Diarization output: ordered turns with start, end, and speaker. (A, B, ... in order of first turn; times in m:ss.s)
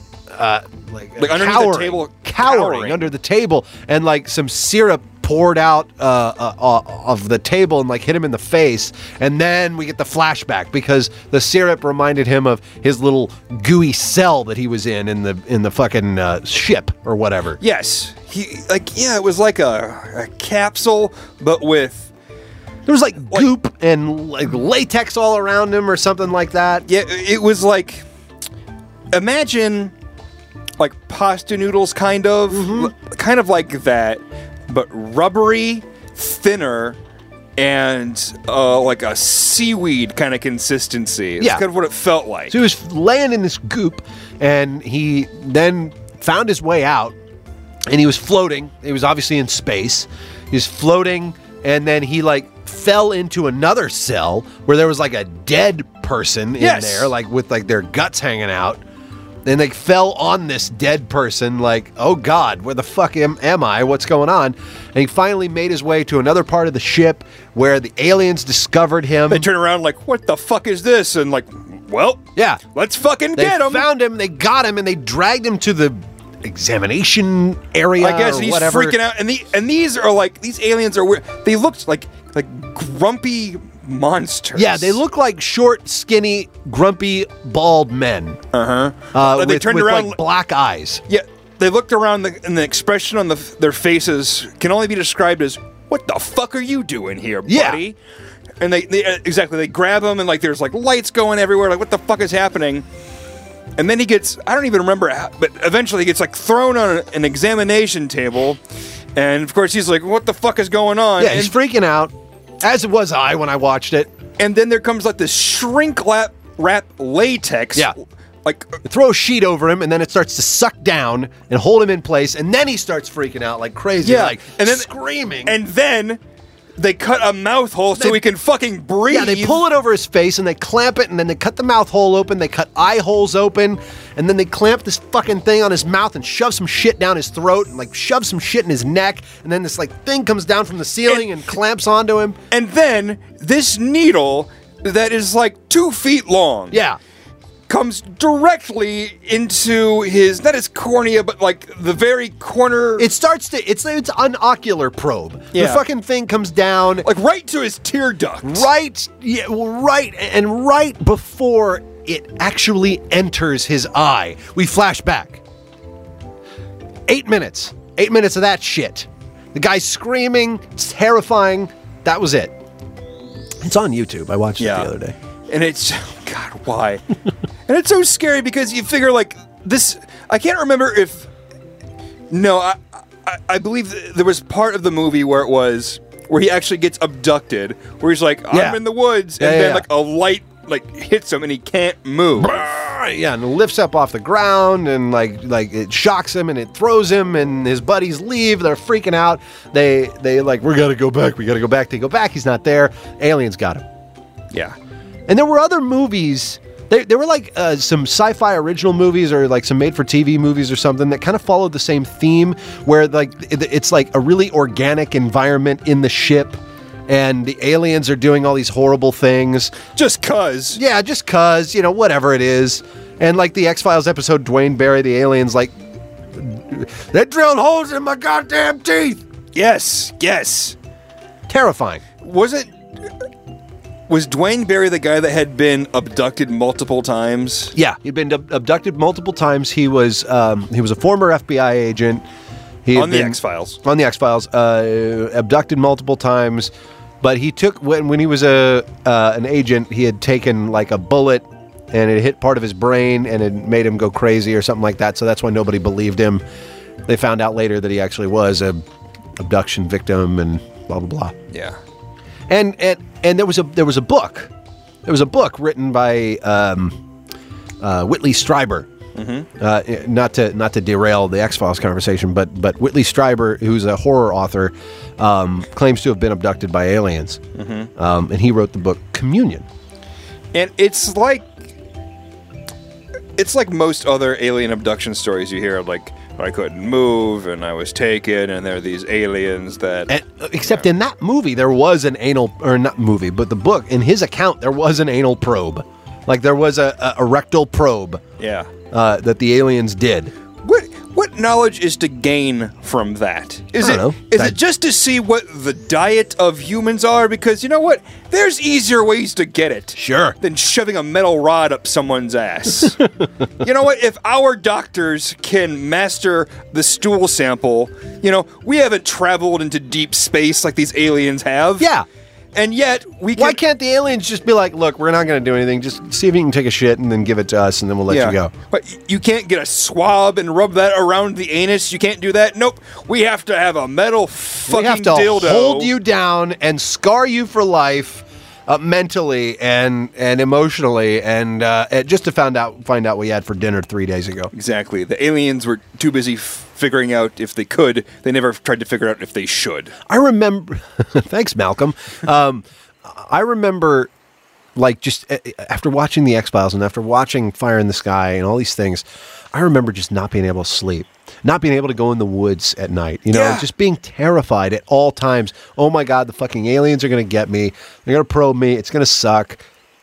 0:00.3-0:17.6 A
0:01.2-0:03.1 B
0:17.6-0:22.1 B
0:22.9-0:26.8 A
0:26.9-0:28.0 B
0:29.1-0:29.9 B
0:30.8-0:37.0 B
0:32.5-0:32.9 A
0:37.6-0:42.6 B
0:41.4-0:41.6 A
0:42.5-0:47.2 A
0:47.9-0:58.8 A
0:56.6-0:57.1 B
0:59.4-1:09.5 A
1:09.3-1:13.9 B
1:12.4-1:12.6 A
1:13.4-1:19.0 A
1:18.0-1:25.0 B
1:24.6-1:28.4 A
1:28.5-1:30.2 B
1:29.1-1:31.0 A
1:31.1-1:38.0 B
1:37.5-1:37.8 A
1:38.6-1:42.9 B
1:43.8-1:48.6 B
1:49.2-1:51.6 B
1:51.2-1:54.1 A
1:54.4-1:58.8 B
1:58.8-2:05.6 A
2:04.0-2:04.9 B
2:05.4-2:06.2 B
2:06.8-2:09.6 B
2:08.0-2:08.2 A
2:09.1-2:22.4 A
2:22.5-2:26.8 B
2:26.7-2:27.0 A
2:27.7-2:33.1 B
2:33.0-2:37.1 A
2:35.5-2:35.8 B
2:37.0-2:38.7 B
2:38.4-2:45.4 A
2:47.1-2:52.5 A
2:53.6-2:55.2 A
2:54.6-2:54.9 B
2:55.5-2:57.0 B
2:57.7-3:01.3 B
3:02.3-3:12.6 B
3:08.5-3:08.8 A
3:09.4-3:09.9 A
3:12.4-3:23.9 A
3:25.3-3:39.8 A
3:39.9-3:40.8 B
3:40.8-3:45.7 A
3:46.3-3:49.2 A
3:49.6-3:50.8 B
3:51.5-3:52.0 A
3:52.2-3:52.7 B
3:54.1-3:57.7 B
3:57.8-4:02.2 A
4:02.8-4:16.4 A
4:02.9-4:03.8 B
4:17.1-4:18.8 A
4:19.4-4:21.4 A
4:21.5-4:21.8 B
4:22.5-4:24.5 A
4:25.1-4:27.0 A
4:27.8-4:28.9 A
4:29.2-4:29.5 B
4:29.6-4:37.4 A
4:37.6-4:37.9 B
4:38.0-4:39.7 A
4:40.5-4:41.6 B
4:43.4-4:50.1 B
4:50.1-4:58.2 A
4:58.4-4:58.7 B
4:58.9-5:00.3 A
5:00.6-5:13.0 B
5:03.8-5:04.6 A
5:10.0-5:10.4 A
5:13.6-5:21.9 B
5:21.8-5:22.1 A
5:22.6-5:23.6 B
5:23.4-5:28.5 A
5:28.1-5:35.9 B
5:34.7-5:44.5 A
5:44.5-5:50.0 B
5:50.1-5:54.1 A
5:54.8-6:09.6 A
6:03.3-6:03.7 B